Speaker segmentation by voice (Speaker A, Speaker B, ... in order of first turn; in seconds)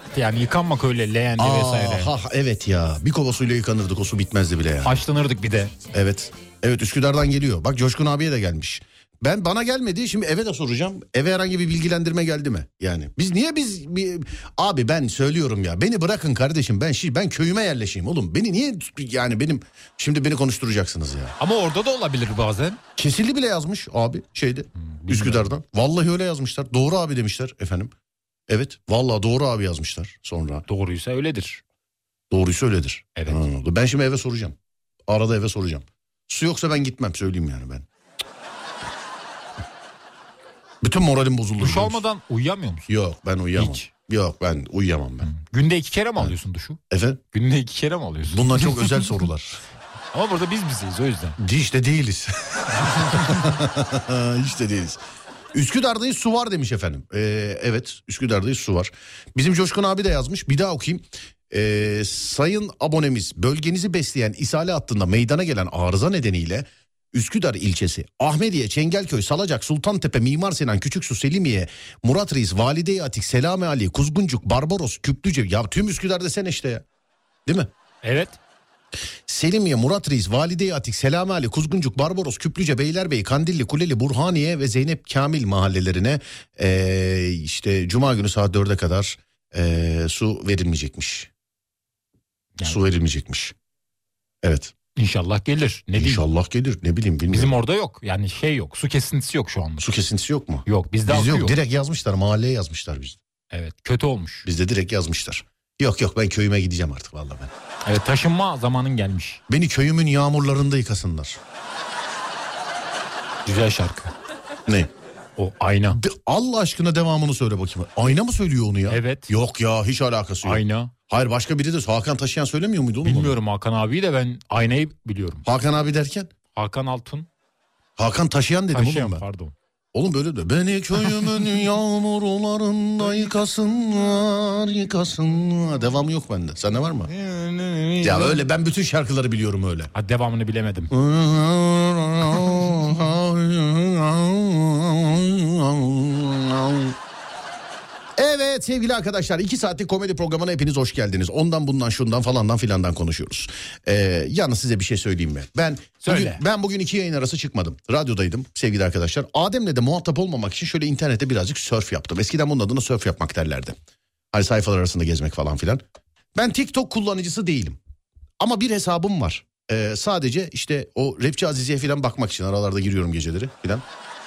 Speaker A: 0.1-2.1, 4.8-5.7, 21.4-22.8, 24.8-25.5, 30.7-31.6, 33.1-33.4, 41.6-42.9, 43.5-43.9, 45.2-46.8, 47.3-48.8, 50.1-51.4, 78.0-78.4, 95.0-96.2, 97.3-99.9, 100.7-101.5, 103.5-104.5, 107.8-109.4, 113.4-114.1, 115.4-116.0, 118.9-119.3, 120.4-120.9, 123.0-125.4, 126.5-127.3, 128.7-129.5, 131.1-131.4, 137.1-138.4, 139.9-140.9, 156.0-156.4
Speaker B: 1.4-5.0, 5.9-21.3, 23.0-27.9, 28.5-30.6, 32.3-34.5, 35.1-37.9, 40.8-42.0, 42.9-45.3, 46.9-47.2, 48.3-49.6, 51.4-55.0, 55.5-76.8, 79.3-91.3, 92.6-93.5, 94.4-94.7, 95.9-97.5, 99.8-103.2, 104.4-107.5, 109.5-111.4, 115.9-123.4, 125.4-126.3, 128.0-129.2, 129.9-137.1, 138.0-139.9, 140.9-147.0, 148.2-163.8, 164.3-165.8, 166.3-167.8, 168.4-173.8